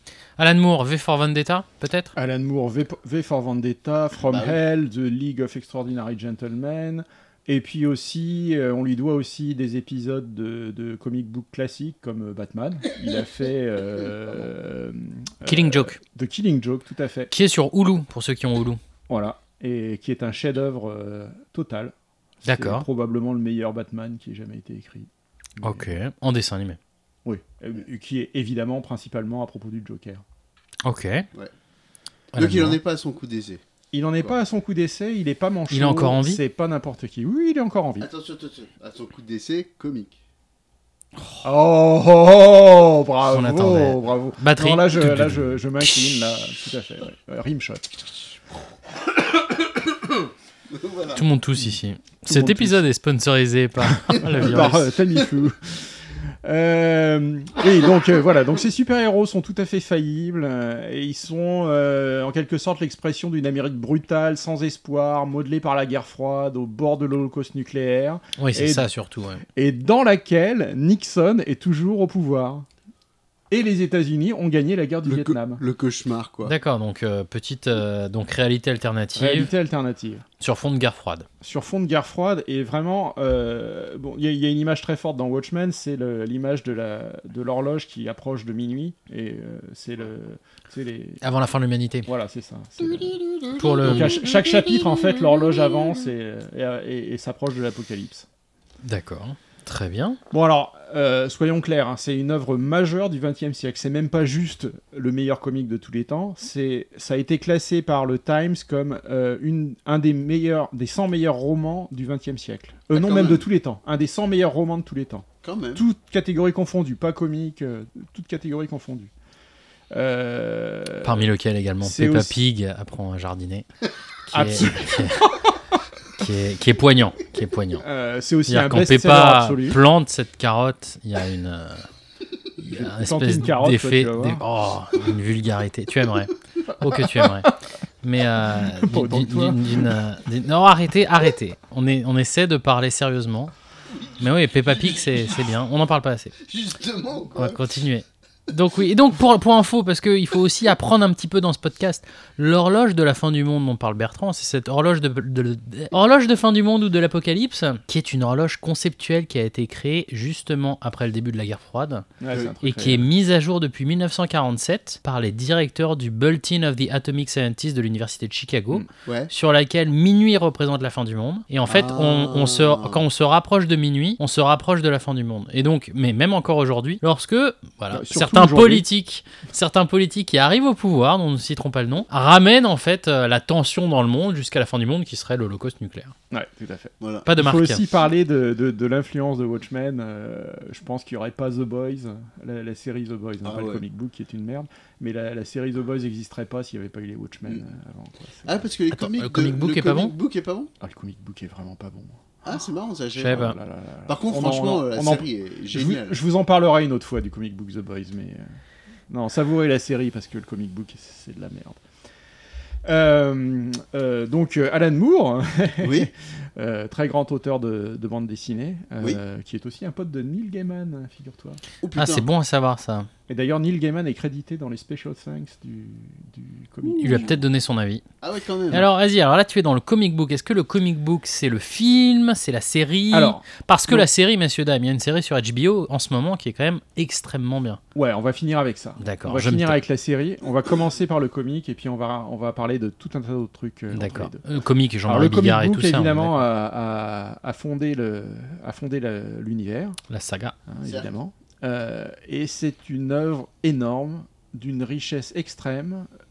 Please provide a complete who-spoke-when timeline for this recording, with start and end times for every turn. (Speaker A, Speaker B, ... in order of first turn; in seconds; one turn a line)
Speaker A: 0.4-2.1
Speaker B: 2.1-17.3
Speaker C: 4.3-4.6
Speaker A: 15.4-16.0
Speaker A: 17.3-18.8
Speaker B: 19.1-21.9
Speaker B: 22.4-25.9
Speaker A: 22.4-22.9
Speaker A: 25.6-26.8
Speaker B: 27.2-30.2
Speaker A: 30.8-31.2
Speaker C: 32.3-33.6
Speaker A: 32.3-32.8
Speaker B: 33.9-38.1
Speaker A: 35.7-36.4
Speaker C: 38.0-40.1
Speaker B: 41.4-47.9
Speaker A: 43.3-45.6
Speaker C: 50.7-51.2
Speaker A: 51.1-54.9
Speaker B: 52.2-52.8
Speaker B: 54.1-55.8
Speaker B: 56.4-68.8
Speaker A: 68.4-69.4
Speaker B: 69.5-72.7
Speaker B: 73.5-75.6
Speaker C: 75.0-76.5
Speaker A: 76.4-79.5
Speaker B: 79.2-80.2
Speaker A: 80.4-81.2
Speaker B: 81.4-91.2
Speaker A: 91.2-92.1
Speaker B: 92.0-98.2
Speaker A: 93.6-94.2
Speaker A: 98.8-100.2
Speaker B: 100.3-119.1
Speaker C: 112.9-113.5
Speaker C: 115.4-115.8
Speaker B: 119.9-121.3
Speaker A: 121.0-123.7
Speaker B: 121.8-122.3
Speaker A: 124.3-125.3
Speaker B: 124.3-125.5
Speaker A: 126.2-127.8
Speaker B: 127.8-129.8
Speaker A: 128.5-131.9
Speaker B: 132.6-134.4
Speaker A: 132.6-143.5
Speaker B: 136.8-137.5
Speaker B: 138.5-140.0
Speaker A: 144.2-146.3
Speaker C: 144.6-145.3
Speaker C: 146.4-147.6
Speaker A: 147.3-162.0
Speaker B: 162.2-163.1
Speaker A: 162.6-186.1
Speaker C: 168.9-169.3
Speaker C: 171.7-173.0
Speaker B: 177.9-178.8
Speaker B: 186.3-198.7
Speaker C: 187.0-187.2
Speaker A: 187.2-187.8
Speaker C: 193.4-193.8
Speaker C: 198.4-200.7
Speaker A: 198.9-200.1
Speaker B: 200.8-202.2
Speaker C: 202.4-203.5
Speaker A: 203.2-203.6
Speaker B: 203.2-208.4
Speaker C: 204.1-206.2
Speaker B: 209.1-211.8
Speaker B: 212.8-221.6
Speaker C: 215.8-216.1
Speaker C: 221.8-222.3
Speaker A: 221.9-223.1
Speaker B: 223.3-227.4
Speaker C: 226.8-227.4
Speaker A: 227.0-228.0
Speaker C: 228.2-228.9
Speaker A: 228.7-237.8
Speaker B: 233.1-234.1
Speaker B: 237.9-244.4
Speaker A: 239.0-239.8
Speaker A: 243.9-246.4
Speaker B: 245.1-250.0
Speaker A: 250.1-250.5
Speaker B: 250.7-256.1
Speaker C: 250.8-251.1